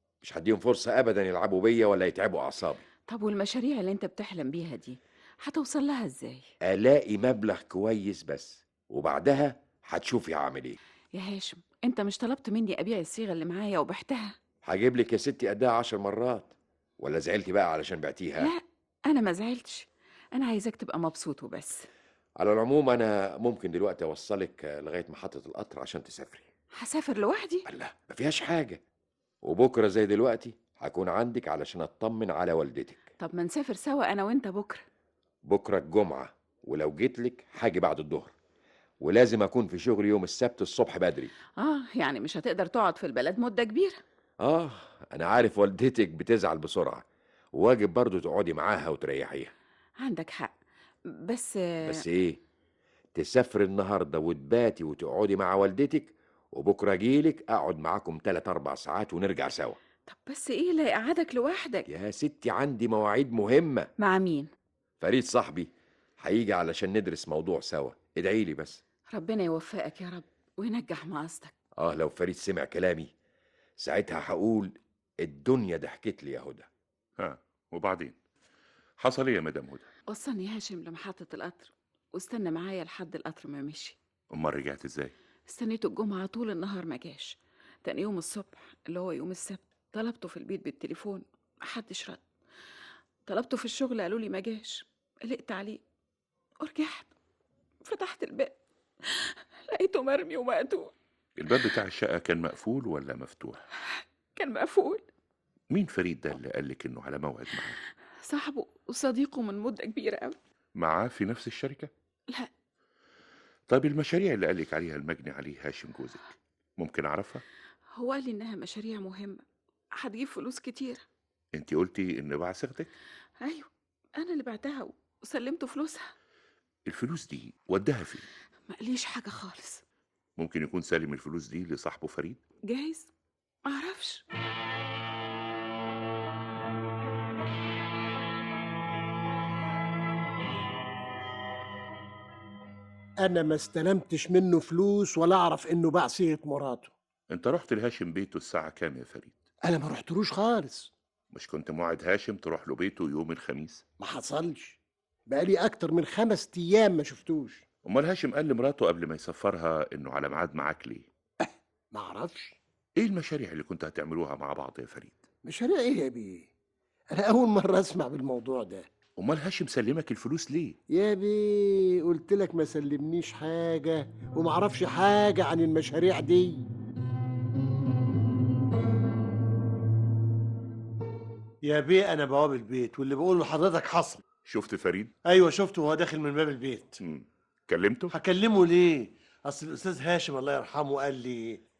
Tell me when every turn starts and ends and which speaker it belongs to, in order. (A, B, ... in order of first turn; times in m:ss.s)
0:00.2-0:02.8 A
0:03.1-0:06.5 B
0:06.6-0:10.8 A
0:11.1-0:14.4 B
0:14.6-0:18.5 A
0:18.4-0:21.9 B
0:22.4-0:26.4 A
0:26.7-0:27.7 B
0:27.7-0:28.8 A
0:29.4-0:33.0 A
0:33.2-0:34.8 B
0:35.4-0:38.3 A
0:39.0-0:41.3 A
0:41.6-0:44.0 B
0:44.4-0:49.5 A
0:50.0-0:50.5 B
0:51.1-0:52.0 B
0:51.8-0:52.4 A
0:53.1-0:59.8 A
1:00.1-1:01.9 B
1:01.9-1:03.9 A
1:04.0-1:04.5 B
1:05.0-1:08.8 A
1:09.1-1:11.5 B
1:11.8-1:13.1 A
1:13.8-1:16.7 A
1:17.2-1:18.2 C
1:19.0-1:19.8 C
1:20.1-1:24.0 B
1:24.3-1:25.1 C
1:25.5-1:32.2 B
1:33.2-1:35.8 B
1:36.6-1:37.1 B
1:37.8-1:40.9 B
1:41.4-1:43.6 C
1:43.9-1:45.0 B
1:45.7-1:47.8 C
1:48.2-1:50.4 B
1:50.8-1:51.9 C
1:53.7-1:57.4 C
1:57.9-1:59.4 B
1:59.9-2:01.0 B
2:01.5-2:02.9 C
2:03.4-2:06.1 B
2:06.8-2:08.3 C
2:08.7-2:09.8 B
2:10.4-2:12.4 C
2:12.6-2:13.1 B
2:13.6-2:14.2 B
2:23.2-2:26.9 D
2:27.3-2:29.4 C
2:29.6-2:30.9 D
2:31.3-2:33.8 C
2:34.0-2:34.8 D
2:35.3-2:37.6 D
2:37.8-2:41.1 C
2:41.4-2:42.6 D
2:43.0-2:45.2 C
2:45.4-2:46.5 D
2:47.1-2:48.9 D
2:49.2-2:50.8 C
2:50.9-2:56.6 D
3:01.6-3:04.2 E
3:04.4-3:05.1 C
3:05.2-3:07.0 E
3:07.0-3:08.1 C
3:08.1-3:11.6 E